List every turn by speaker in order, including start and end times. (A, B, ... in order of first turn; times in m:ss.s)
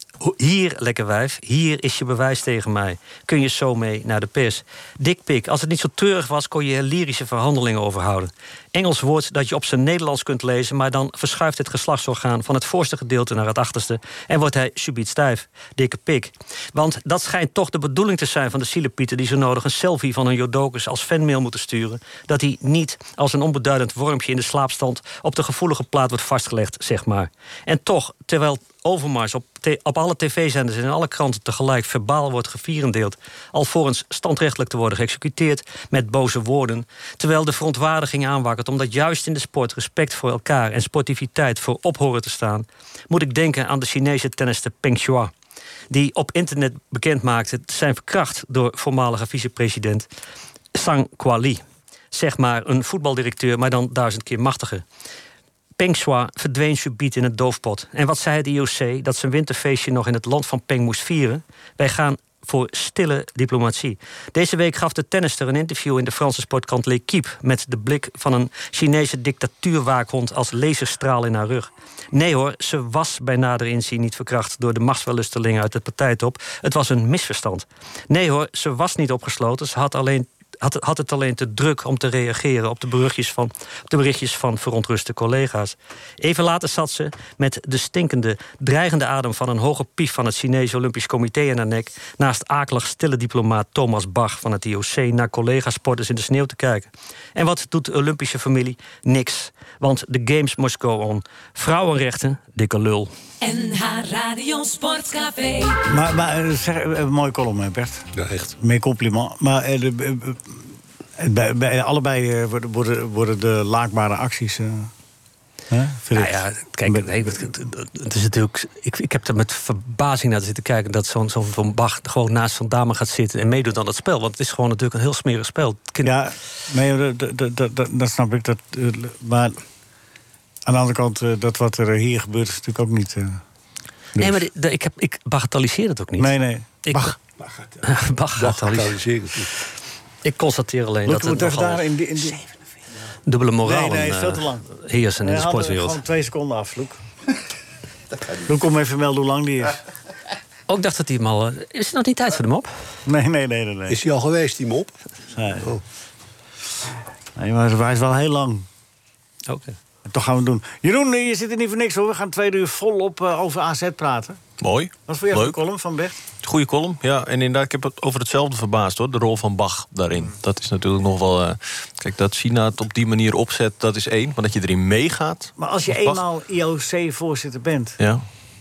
0:00.2-0:45.3 A
0:45.9-0:50.1 A
0:50.7-0:54.8 A
0:55.8-1:43.1 A
1:43.4-1:45.8 B
1:45.9-1:50.6 C
1:48.2-1:48.6 D
1:51.2-1:54.9 C
1:55.7-1:57.4 C
1:56.1-2:06.2 A
2:06.0-2:09.6 C
2:10.7-2:13.4 C
2:14.2-2:14.4 C
2:14.2-2:17.2 A
2:16.2-2:17.1 C
2:17.8-2:19.0 A
2:18.4-2:19.5 D
2:20.2-2:21.8 A
2:21.1-2:22.4 C
2:23.3-2:26.0 A
2:23.6-2:24.7 C
2:25.2-2:27.0 C
2:28.5-2:29.8 C
2:30.7-2:32.7 A
2:33.1-2:34.0 C
2:33.9-2:34.9 D
2:35.4-2:35.7 C
2:37.4-2:38.7 C
2:39.5-2:39.8 A
2:40.1-2:44.4 C
2:44.6-2:45.6 E
2:45.1-2:46.2 C
2:46.4-2:56.2 E
2:55.6-2:58.0 C
2:58.0-2:58.3 E